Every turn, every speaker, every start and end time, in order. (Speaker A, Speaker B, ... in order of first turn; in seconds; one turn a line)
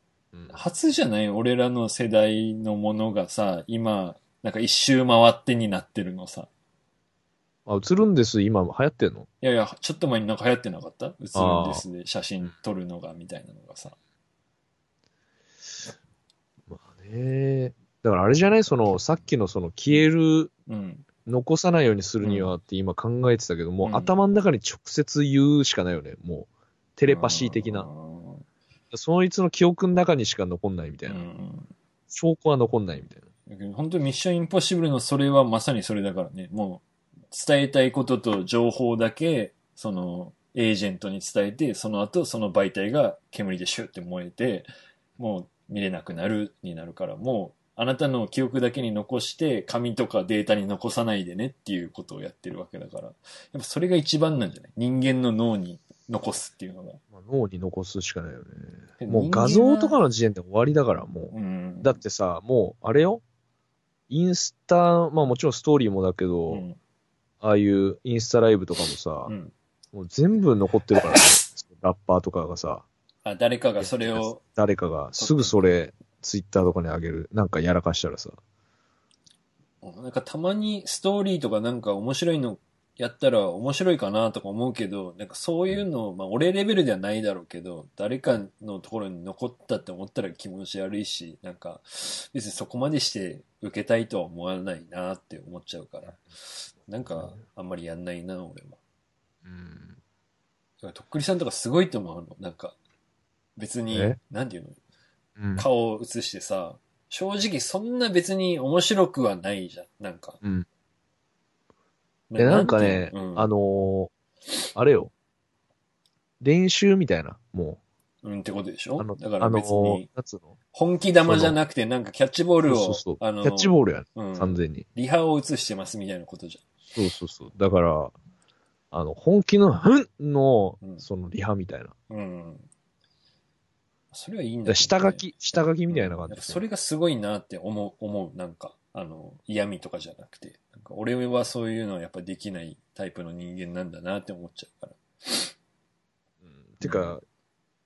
Speaker A: 0.5-6.5
Speaker B: 7.7-9.3
Speaker A: 9.4-14.0
Speaker B: 11.4-11.8
Speaker B: 16.7-20.5
Speaker A: 20.7-21.1
Speaker B: 21.3-27.9
Speaker A: 22.2-22.5
Speaker A: 23.8-24.1
Speaker A: 27.1-28.4
Speaker B: 28.9-31.3
Speaker A: 31.1-31.7
Speaker B: 32.1-33.3
Speaker A: 33.5-57.0
Speaker B: 57.1-63.2
Speaker A: 59.0-60.0
Speaker A: 61.3-62.0
Speaker B: 64.1-66.7
Speaker A: 66.5-66.8
Speaker B: 67.4-69.3
Speaker A: 69.3-69.5
Speaker B: 69.9-72.9
Speaker A: 71.0-71.2
Speaker A: 73.2-74.4
Speaker B: 73.8-78.4
Speaker A: 75.2-75.7
Speaker A: 79.8-98.8
Speaker B: 99.5-100.0
Speaker A: 100.8-102.8
Speaker A: 103.6-104.8
Speaker B: 103.9-104.2
Speaker B: 105.4-105.7
Speaker A: 105.6-110.4
Speaker A: 112.3-113.5
Speaker B: 112.4-114.1
Speaker B: 114.8-115.1
Speaker B: 116.4-117.8
Speaker A: 118.2-120.1
Speaker B: 119.0-120.6
Speaker A: 120.7-126.7
Speaker B: 121.2-121.6
Speaker B: 122.7-124.8
Speaker B: 127.0-128.1
Speaker B: 128.9-131.9
Speaker A: 130.8-131.1
Speaker A: 132.1-132.7
Speaker A: 134.1-145.5
Speaker B: 134.7-136.6
Speaker B: 146.4-147.2
Speaker A: 146.8-147.2